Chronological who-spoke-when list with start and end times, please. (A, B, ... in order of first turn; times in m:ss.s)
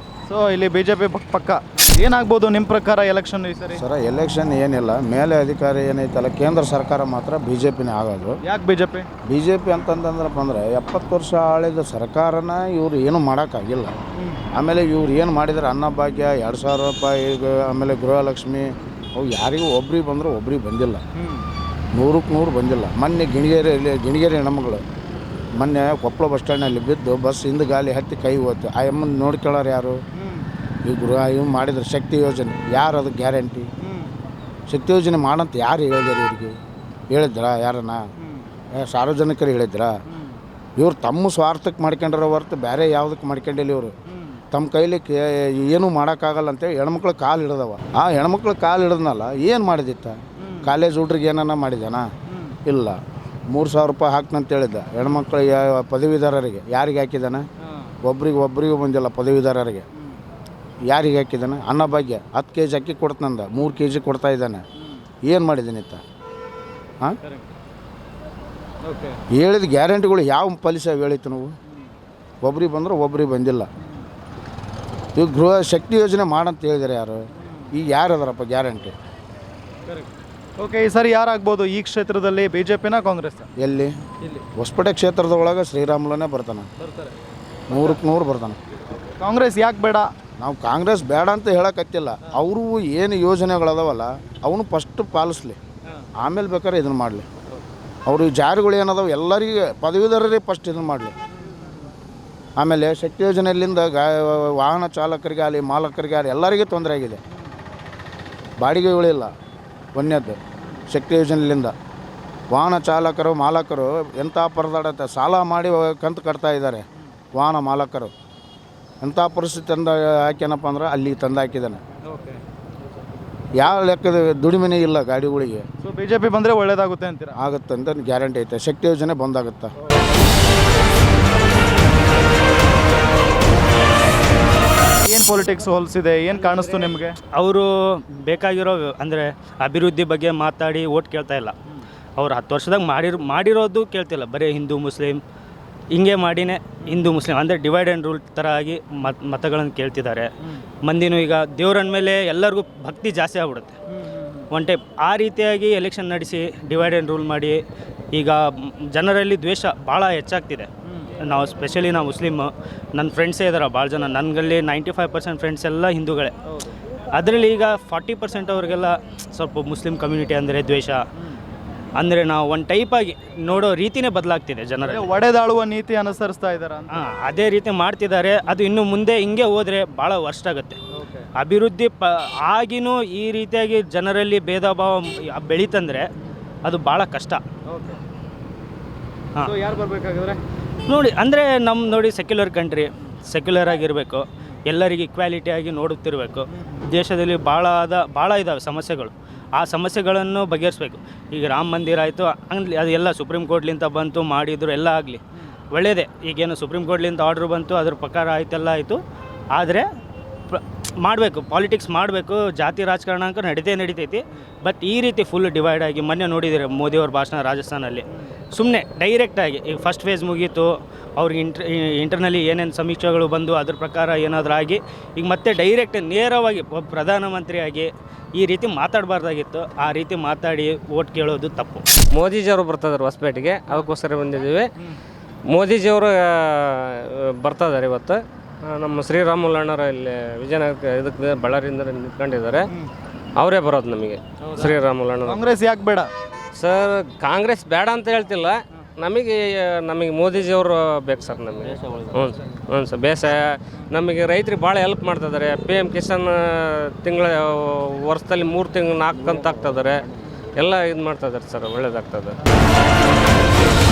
0:00.3-0:03.8 A
0:03.8-0:08.4 B
0:08.4-0:09.1 A
0:09.2-0:14.0 B
0:14.5-0:21.0 B
0:21.2-0:21.4 A
0:21.9-0:24.8 B
0:25.6-0:30.0 B
0:30.2-0:30.4 A
0:30.8-0:33.7 B
0:33.8-0:34.1 A
0:34.7-0:36.6 B
0:37.1-0:38.1 B
0:38.8-0:39.9 B
0:40.8-0:43.9 B
0:44.5-0:52.0 B
0:50.4-0:50.6 A
0:52.6-0:53.0 B
0:53.5-0:57.4 B
0:58.0-0:59.9 B
1:00.9-1:04.6 B
1:05.2-1:06.0 B
1:08.8-1:09.2 A
1:09.3-1:11.5 B
1:12.4-1:13.7 B
1:15.2-1:18.9 B
1:20.6-1:23.4 A
1:23.6-1:23.9 B
1:24.6-1:26.7 B
1:26.8-1:27.1 A
1:27.7-1:28.6 B
1:29.2-1:30.1 A
1:30.4-1:35.6 B
1:36.2-1:37.2 B
1:38.0-1:41.2 B
1:42.6-1:47.2 B
1:48.6-1:49.3 B
1:49.9-1:50.4 B
1:50.9-1:51.7 B
1:52.5-1:58.1 B
1:59.0-2:01.8 B
2:02.0-2:02.4 A
2:03.6-2:05.7 B
2:05.8-2:07.3 A
2:07.4-2:09.7 B
2:15.0-2:17.2 A
2:17.3-2:21.5 C
2:22.2-2:25.2 C
2:25.9-2:30.3 C
2:30.8-2:33.7 C
2:34.5-2:37.6 C
2:38.1-2:40.7 C
2:41.2-2:46.3 C
2:47.1-2:51.0 C
2:52.0-2:55.1 C
2:54.8-2:56.9 A
2:56.9-3:00.8 C
3:01.0-3:01.2 A
3:01.4-3:06.1 C
3:06.6-3:07.4 C
3:07.7-3:08.0 A
3:09.4-3:10.4 A
3:10.9-3:25.2 C
3:25.7-3:29.0 C
3:29.5-3:29.9 C
3:30.5-3:51.8 C
3:52.1-3:54.7 D
3:55.5-4:02.7 D
4:03.4-4:05.4 D
4:05.3-4:06.1 A
4:06.6-4:20.0 D
4:20.6-4:22.4 D